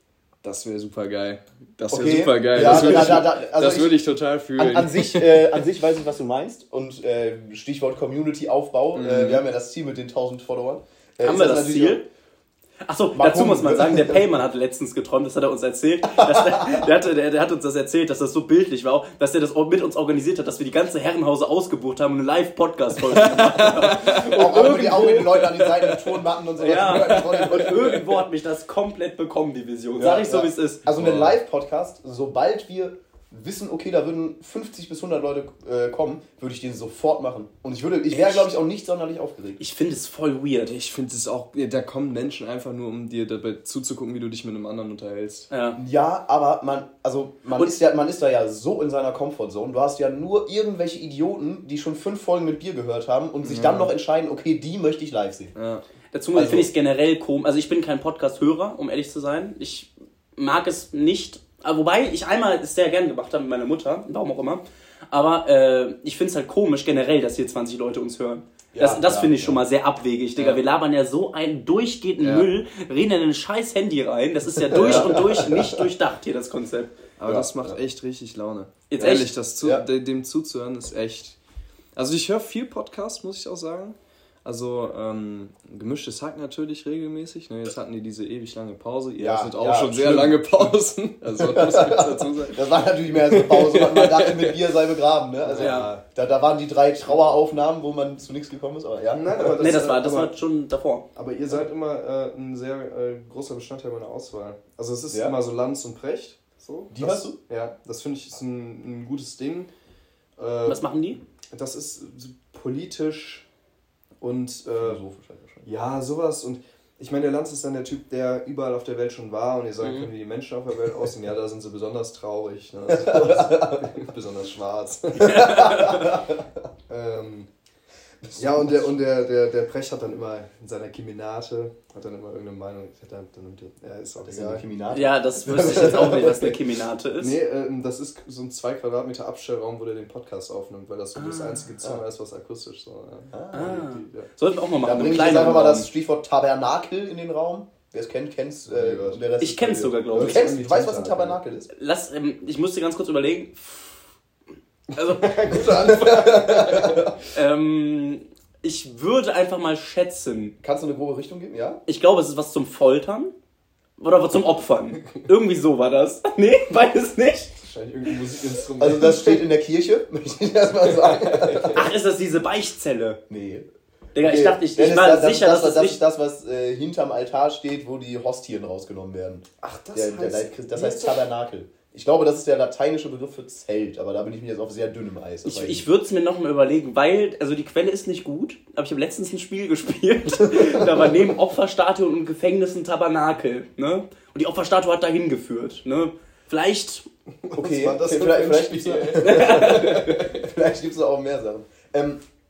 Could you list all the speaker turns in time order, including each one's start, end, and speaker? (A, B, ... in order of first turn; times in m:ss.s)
0:00.4-0:05.5 A
0:01.9-0:04.0 B
0:04.6-0:12.0 B
0:08.9-0:09.4 A
0:11.2-0:12.0 C
0:12.8-0:25.5 C
0:13.1-0:14.3 B
0:16.1-0:16.9 B
0:23.0-0:26.1 A
0:23.8-0:28.0 B
0:26.6-0:30.8 C
0:26.8-0:28.0 A
0:30.0-0:39.6 B
0:30.9-0:31.4 A
0:38.1-0:38.5 C
0:39.6-0:40.7 C
0:40.7-0:45.5 A
0:45.5-0:45.8 C
0:45.8-0:55.5 B
0:53.4-0:53.9 A
0:55.6-0:55.8 A
0:56.1-1:16.9 C
0:56.3-0:56.7 A
1:08.7-1:09.6 B
1:10.4-1:10.6 A
1:12.2-1:12.5 A
1:14.7-1:15.3 A
1:14.7-1:15.8 B
1:17.2-1:21.4 A
1:17.3-1:17.8 B
1:18.9-1:19.3 C
1:22.0-1:32.6 A
1:29.2-1:30.7 B
1:31.4-1:39.6 B
1:33.2-1:34.8 A
1:35.4-1:36.0 A
1:35.6-1:35.9 C
1:39.1-1:40.3 A
1:39.6-1:41.1 C
1:41.2-1:49.7 A
1:46.9-1:47.4 B
1:50.4-1:50.8 A
1:50.7-1:51.2 C
1:51.5-1:53.4 A
1:54.2-1:55.0 A
1:54.8-1:55.7 B
1:55.6-2:05.5 A
1:59.8-2:00.1 C
2:02.9-2:04.0 B
2:05.2-2:06.4 B
2:05.2-2:06.1 C
2:06.9-2:07.5 A
2:08.2-2:08.9 B
2:08.4-2:14.6 A
2:14.2-2:16.6 B
2:14.9-2:17.4 C
2:17.2-2:24.3 A
2:21.2-2:21.6 C
2:23.3-2:23.9 B
2:23.5-2:25.9 C
2:24.8-2:31.7 B
2:28.7-2:29.2 A
2:29.4-2:30.5 C
2:30.1-2:31.4 A
2:31.7-2:34.0 C
2:34.9-2:37.1 A
2:35.0-2:35.4 C
2:35.6-2:37.2 B
2:37.3-2:40.6 C
2:40.6-2:41.8 B
2:41.9-2:43.3 C
2:44.0-2:47.5 C
2:45.0-2:45.3 A
2:47.6-2:49.4 A
2:48.8-2:51.9 B
2:50.9-2:51.8 A
2:51.7-2:53.2 C
2:53.3-2:53.7 B
2:54.2-2:56.0 C
2:54.2-3:05.8 B
2:59.6-3:01.2 A
3:05.4-3:17.1 C
3:17.4-3:20.5 A
3:17.6-3:22.2 B
3:19.3-3:20.1 C